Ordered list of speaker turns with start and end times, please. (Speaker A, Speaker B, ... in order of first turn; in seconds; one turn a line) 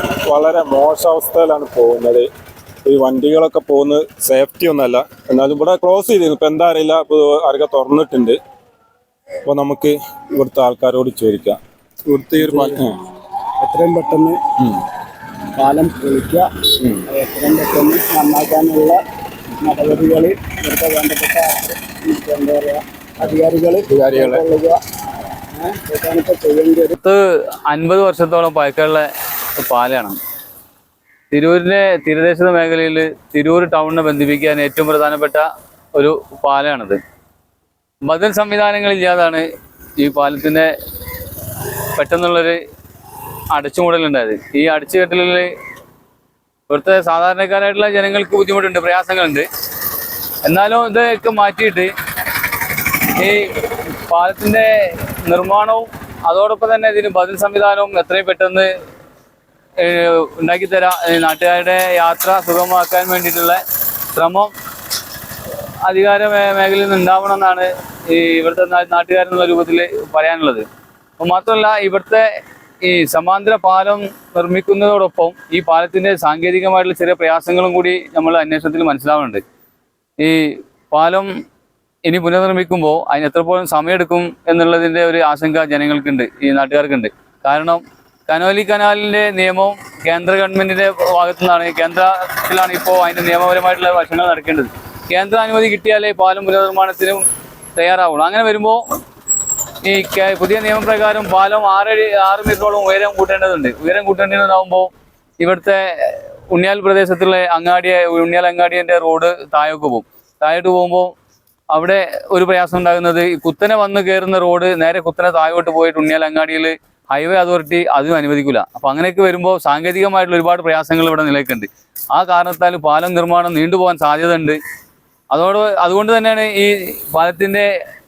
Speaker A: 0.3-2.3
Speaker A: 2.9-8.4
Speaker A: 9.4-11.6
Speaker A: 12.1-13.0
Speaker B: 12.3-12.8
Speaker B: 13.6-14.4
Speaker B: 15.6-16.5
Speaker A: 16.8-17.0
Speaker B: 17.1-19.0
Speaker B: 19.6-24.8
Speaker A: 23.2-24.4
Speaker B: 25.5-27.0
Speaker C: 27.0-29.1
Speaker C: 29.6-30.2
Speaker C: 31.3-37.0
Speaker C: 38.0-39.5
Speaker C: 40.0-40.7
Speaker C: 42.0-42.6
Speaker C: 43.5-45.5
Speaker C: 46.7-49.5
Speaker C: 50.4-51.9
Speaker C: 53.2-53.5
Speaker C: 54.1-58.7
Speaker C: 59.8-63.6
Speaker C: 64.1-64.5
Speaker C: 65.8-70.6
Speaker C: 71.2-72.2
Speaker C: 72.8-79.4
Speaker C: 80.2-81.3
Speaker C: 82.1-97.2
Speaker C: 97.8-98.8
Speaker C: 99.8-111.1
Speaker C: 111.7-124.6
Speaker C: 125.3-127.7